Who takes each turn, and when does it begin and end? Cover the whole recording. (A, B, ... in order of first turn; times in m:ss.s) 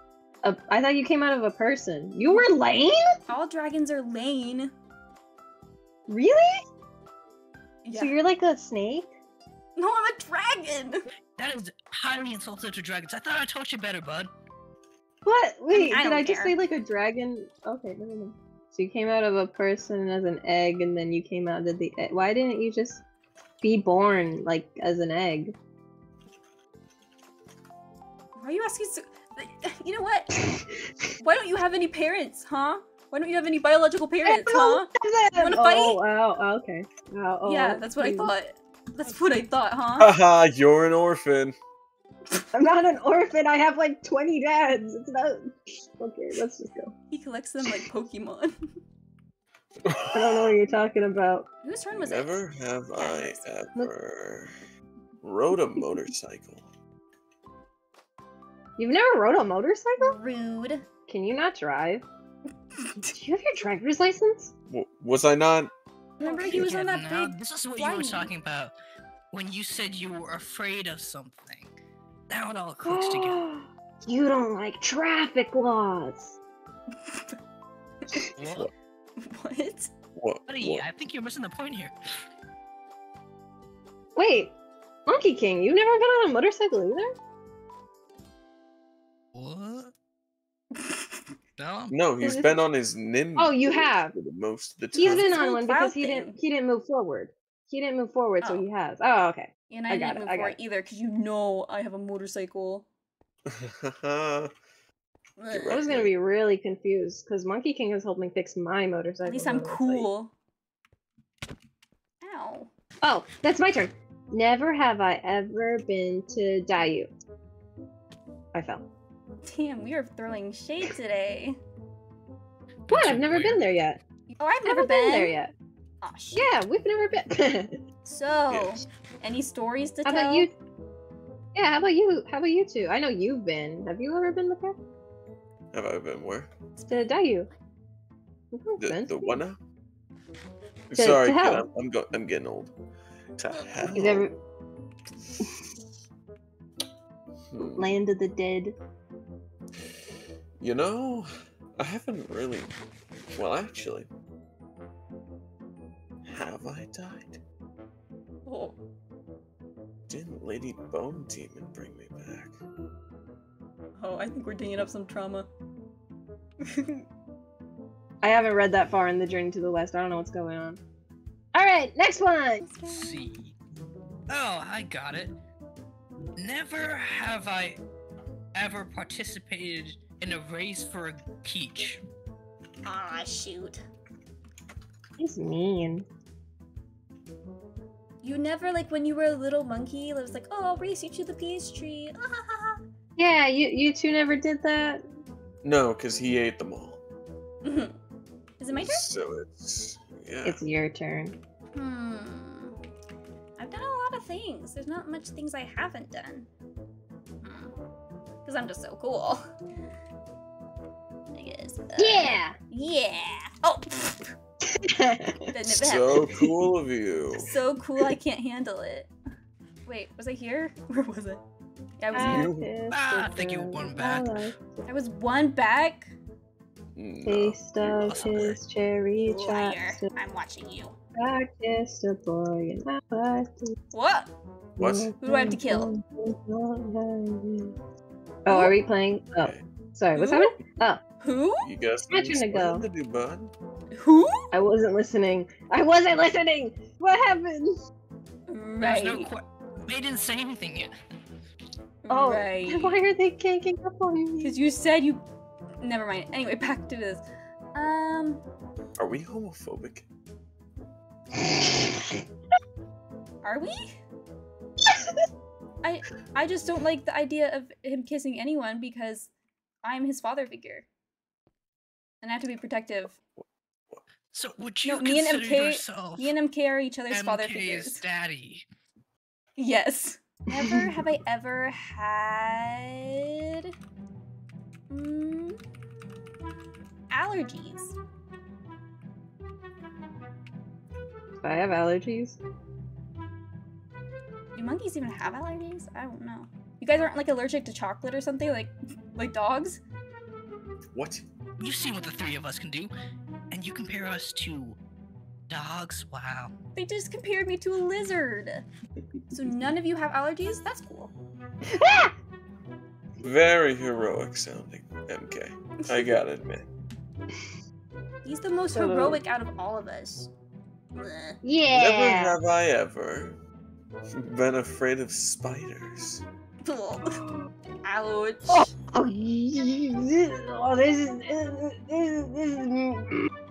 0:00.4-0:03.1 A
0:03.3-0:04.7 B
0:06.1-0:06.6 A
0:07.8-0:08.2 B
0:07.9-0:09.1 A
0:09.8-0:11.0 B
0:11.4-0:14.3 C
0:15.2-0:23.0 A
0:15.7-0:16.6 B
0:23.6-0:25.5 A
0:28.4-0:30.3 B
0:31.2-0:36.0 B
0:34.2-0:38.3 A
0:37.4-0:40.1 B
0:40.0-0:41.6 D
0:42.5-0:46.9 A
0:47.1-0:48.5 B
0:49.8-0:50.5 D
0:50.1-0:51.4 A
0:51.6-0:53.5 B
0:51.9-0:54.5 D
0:55.2-0:56.7 D
0:58.8-1:00.2 A
1:00.0-1:00.8 B
1:01.1-1:02.1 A
1:02.8-1:03.1 B
1:03.1-1:04.5 A
1:04.7-1:05.7 D
1:06.2-1:08.3 B
1:06.2-1:06.6 A
1:06.4-1:08.7 C
1:09.3-1:11.7 C
1:12.3-1:13.4 C
1:12.8-1:16.4 A
1:17.0-1:17.4 B
1:18.4-1:18.7 C
1:18.4-1:18.7 D
1:19.2-1:19.9 B
1:20.2-1:20.8 D
1:20.5-1:21.9 C
1:24.2-1:24.5 A
1:25.1-1:27.1 A
1:29.3-1:29.9 C
1:30.8-1:31.2 B
1:31.6-1:31.9 C
1:31.9-1:35.4 D
1:32.2-1:32.6 A
1:33.4-1:34.1 A
1:34.9-1:40.6 A
1:35.0-1:36.4 B
1:39.7-1:42.9 B
1:43.5-1:44.5 D
1:45.4-1:45.8 B
1:45.5-1:46.1 D
1:45.7-1:50.1 A
1:49.2-1:50.3 B
1:52.2-1:52.7 B
1:53.0-1:57.1 A
1:58.5-1:58.9 A
1:59.4-2:01.6 B
2:02.9-2:03.6 C
2:02.9-2:04.0 A
2:04.4-2:05.4 B
2:04.6-2:05.5 A
2:06.0-2:06.5 B
2:06.3-2:07.8 A
2:08.0-2:10.5 B
2:08.5-2:08.8 D
2:10.0-2:10.5 A
2:11.5-2:14.8 A
2:15.7-2:16.5 D
2:16.8-2:17.1 B
2:16.9-2:17.5 A
2:18.5-2:19.4 A
2:18.8-2:19.6 D
2:20.9-2:22.7 D
2:21.0-2:21.6 A
2:23.4-2:24.3 D
2:23.9-2:24.3 A
2:27.5-2:27.9 D
2:27.6-2:28.8 A
2:30.6-2:32.7 D
2:33.3-2:34.1 D
2:36.2-2:37.4 D
2:38.4-2:38.8 B
2:40.1-2:42.6 D
2:44.0-2:45.5 B
2:46.7-2:47.0 B
2:48.2-2:50.8 A
2:51.5-2:52.6 A
2:52.6-2:53.2 B
2:52.9-2:53.5 C
2:54.3-2:55.3 C
2:56.4-2:57.8 C
2:58.5-3:02.0 C
3:02.8-3:03.8 B
3:05.2-3:06.1 A
3:08.2-3:12.8 B
3:13.2-3:15.0 A
3:15.6-3:17.0 D
3:17.6-3:18.0 B
3:18.6-3:19.1 B
3:18.7-3:20.6 D
3:20.4-3:21.4 A
3:21.7-3:22.8 B
3:23.6-3:26.5 B
3:27.4-3:27.7 B
3:28.4-3:29.5 B
3:31.3-3:34.3 B
3:32.0-3:32.6 A
3:34.7-3:35.4 A
3:35.5-3:36.1 B
3:35.6-3:37.5 D
3:37.4-3:39.1 B
3:39.9-3:41.4 B
3:42.0-3:42.5 B
3:42.1-3:44.8 A
3:42.1-3:42.7 D
3:42.9-3:44.5 C
3:44.9-3:46.1 B
3:47.0-3:48.2 D
3:47.2-3:50.1 A
3:47.9-3:48.6 C
3:49.2-3:51.0 B
3:51.2-3:53.7 A
3:53.9-3:54.3 B
3:54.8-3:55.1 D
3:54.8-3:57.7 A
3:55.2-3:55.9 B
3:58.4-4:01.0 A
3:58.5-3:58.8 B
3:59.4-3:59.6 D
4:00.2-4:00.6 B
4:01.2-4:01.6 B
4:01.6-4:03.5 D
4:02.1-4:02.8 A
4:04.0-4:04.4 B
4:04.5-4:07.7 A
4:08.5-4:09.3 B
4:08.8-4:10.9 C
4:12.0-4:13.0 B
4:12.1-4:14.5 A
4:14.4-4:15.2 B
4:15.8-4:17.2 B
4:17.8-4:18.4 B
4:19.0-4:20.0 D
4:23.4-4:24.0 B
4:25.8-4:29.3 B
4:29.8-4:30.9 B
4:32.2-4:33.2 B
4:33.4-4:34.0 D
4:34.3-4:36.3 C
4:34.8-4:38.0 B
4:37.1-4:38.6 C
4:39.6-4:43.7 B
4:40.6-4:40.9 A
4:44.9-4:45.6 B
4:47.1-4:48.0 B
4:51.4-4:52.4 A
4:54.5-4:59.8 B
5:00.9-5:01.2 D
5:01.6-5:02.9 C
5:03.5-5:04.8 C
5:05.5-5:06.5 C
5:06.8-5:08.6 B
5:09.3-5:11.1 B
5:11.7-5:12.1 A
5:13.2-5:16.6 D
5:18.2-5:20.3 B
5:18.7-5:19.2 A
5:20.9-5:21.4 B
5:21.4-5:22.4 A
5:21.7-5:23.4 D
5:24.2-5:26.2 D
5:26.6-5:27.2 B
5:27.8-5:28.7 B
5:28.5-5:33.3 A